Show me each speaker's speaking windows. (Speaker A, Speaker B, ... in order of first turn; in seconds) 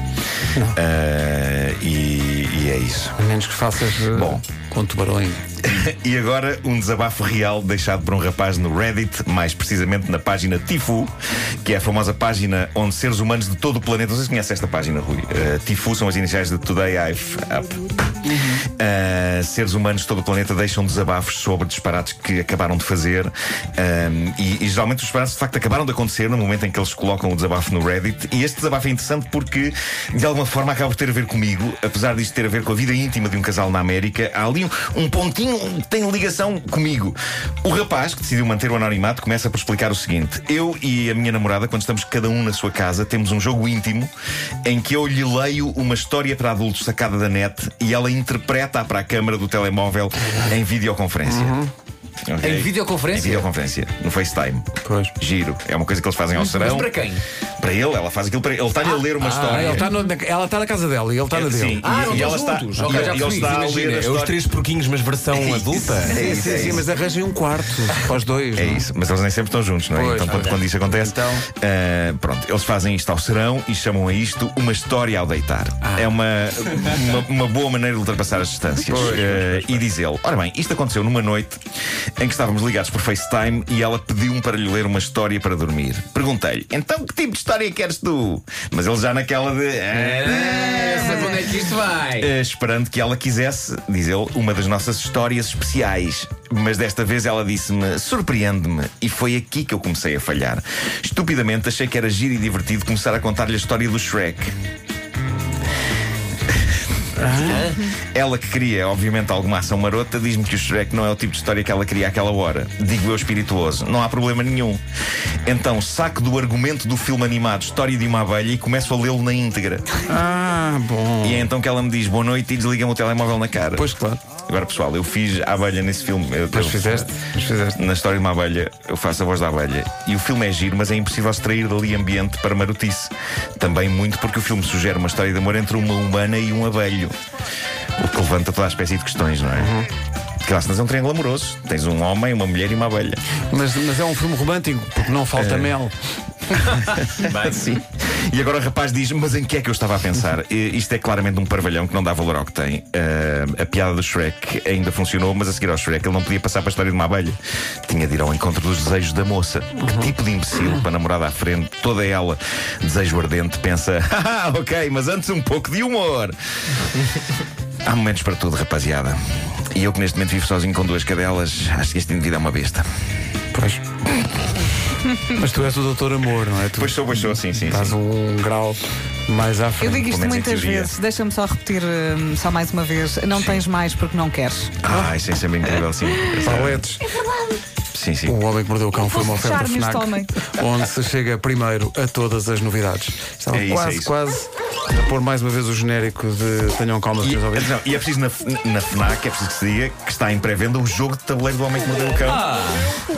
Speaker A: 0.7-3.1, 4.1-4.4, 5.6-17.9, 18.6-44.1, 44.6-51.6, 52.3-57.0, 57.6-59.9, 61.3-64.5, 65.4-66.9, 68.5-81.6, 82.2-91.5, 92.2-104.5, 107.3-114.8, 115.5-119.8, 121.2-123.9, 124.5-127.1, 127.8-137.1, 138.0-139.8, 140.4-143.2, 145.3-145.8, 146.7-166.3, 167.8-169.2, 169.7-172.9, 176.8-178.0, 180.0-180.9, 184.8-186.8, 187.9-188.4, 193.5-194.1, 197.2-202.5
Speaker B: 3.2-5.5, 18.3-18.6, 51.2-51.7, 54.9-55.1, 59.5-61.8, 66.0-68.8, 69.9-71.5, 78.9-79.8, 107.2-107.6, 120.1-121.5, 123.7-124.2, 126.5-127.8, 139.6-139.9, 143.5-145.9, 159.8-160.1, 173.5-173.8, 175.3-180.2, 186.4-187.1, 188.3-197.8
Speaker C: 52.4-53.5, 56.3-57.2, 61.8-64.2, 89.9-92.3
Speaker D: 59.2-59.8, 62.8-66.4, 202.2-203.0
Speaker E: 179.8-184.8, 187.1-187.6, 188.9-190.3